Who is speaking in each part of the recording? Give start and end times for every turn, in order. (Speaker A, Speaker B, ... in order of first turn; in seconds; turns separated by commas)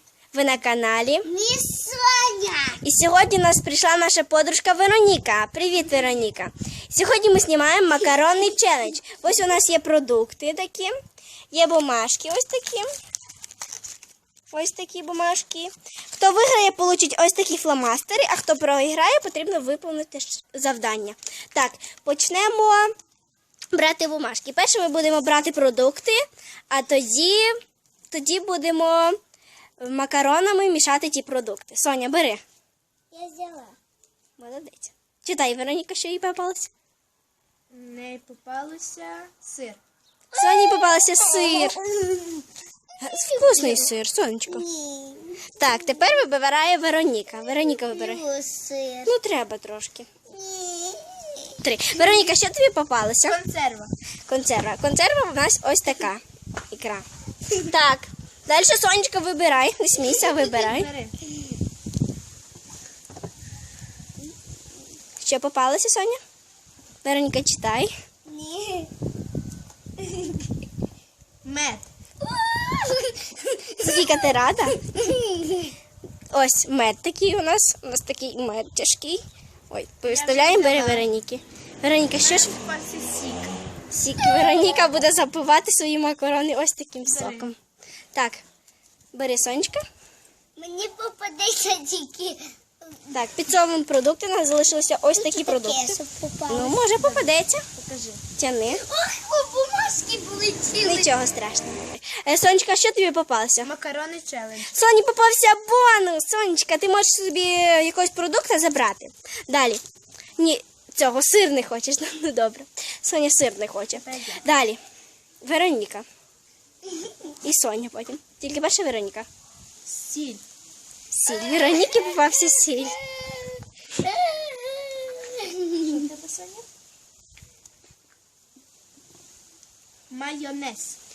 Speaker A: 0.3-1.3, Speaker B: 1.3-2.8, Speaker A: 2.8-10.9, Speaker A: 11.5-12.9, Speaker A: 14.5-22.9, Speaker A: 23.7-26.2, Speaker A: 26.7-27.5, Speaker A: 28.1-29.2, Speaker A: 29.8-32.4, Speaker B: 33.1-33.8, Speaker A: 34.4-36.7, Speaker C: 37.7-39.8, Speaker A: 40.3-41.8, Speaker B: 40.3-42.5, Speaker A: 43.0-44.6, Speaker B: 43.0-43.9, Speaker B: 44.5-46.0, Speaker A: 45.5-48.2, Speaker B: 47.5-49.1, Speaker A: 49.0-50.1, Speaker B: 50.3-51.6, Speaker A: 51.6-53.4, Speaker C: 53.3-53.9, Speaker A: 54.3-60.9, Speaker C: 60.2-61.1, Speaker A: 65.2-66.2, Speaker A: 67.0-67.9, Speaker B: 68.3-68.9, Speaker B: 70.0-70.4, Speaker C: 71.4-71.9, Speaker B: 72.2-74.3, Speaker A: 73.8-74.8, Speaker B: 74.9-75.7, Speaker A: 76.3-82.6, Speaker C: 80.0-81.1, Speaker C: 82.2-83.6, Speaker A: 83.9-87.6, Speaker B: 84.2-84.9, Speaker C: 87.0-87.5, Speaker A: 88.1-88.4, Speaker A: 89.1-89.8, Speaker B: 90.6-93.2, Speaker A: 93.1-97.7, Speaker B: 95.1-96.8, Speaker C: 96.9-98.2, Speaker A: 98.3-98.8, Speaker B: 98.7-101.1, Speaker A: 100.8-103.7, Speaker C: 103.6-104.7, Speaker A: 104.6-109.8, Speaker A: 110.4-114.8, Speaker C: 113.9-114.5, Speaker A: 115.4-116.1, Speaker A: 117.3-119.3, Speaker C: 119.8-120.4, Speaker A: 121.1-123.0, Speaker B: 121.5-123.2, Speaker B: 124.1-125.9, Speaker C: 125.8-126.7, Speaker C: 130.1-131.0